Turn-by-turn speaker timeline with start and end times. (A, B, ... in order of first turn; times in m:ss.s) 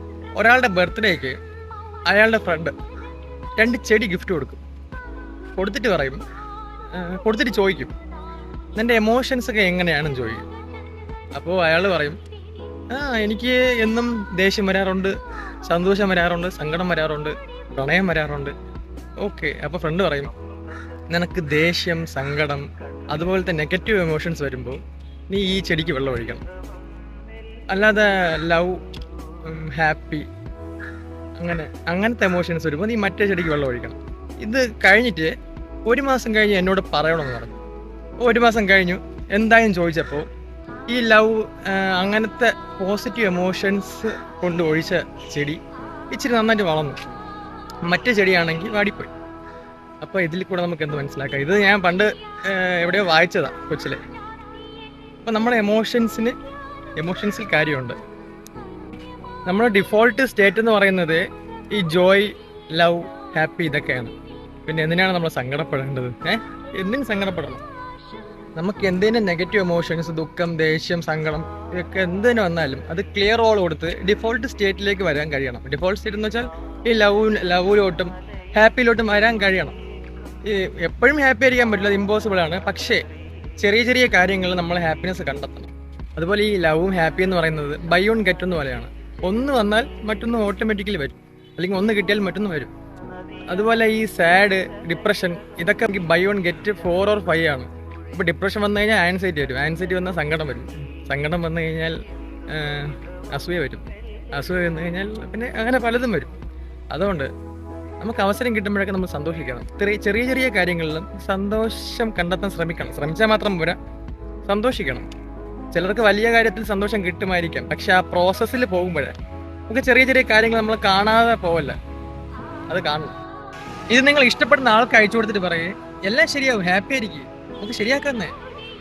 0:00.4-0:01.4 A
0:02.1-0:02.7 A
0:03.6-0:04.6 A
0:05.5-0:06.2 A
0:06.9-0:07.9 A
0:08.8-0:10.4 A
0:11.3-0:12.2 A
0:12.9-0:15.1 A
0:15.7-0:18.5 A
0:19.2-0:20.3 A
0:21.1-0:26.4 A
0:27.7-0:28.8 A
0:29.4-0:30.2 A
0:31.4-0:35.3 A
0:35.8-0:37.6 A
0:38.2-0:40.3 A
0:40.9-0:45.6 A
0:46.1-0:47.0 A
0:47.8-0:49.1 A
0:50.0-0:54.0 A
0:55.2-0:56.3 A
0:57.0-0:58.0 A
0:59.4-1:04.1 A
1:04.7-1:07.6 A
1:08.6-1:19.8 A
1:20.4-1:23.0 A
1:23.6-1:32.7 A
1:33.5-1:42.0 A
1:42.5-1:46.3 A
1:46.9-1:47.3 A
1:48.0-1:53.8 A
1:54.4-1:55.0 A
1:55.7-1:59.1 A
1:59.7-2:01.8 A
2:02.7-2:03.1 A
2:03.9-2:08.3 A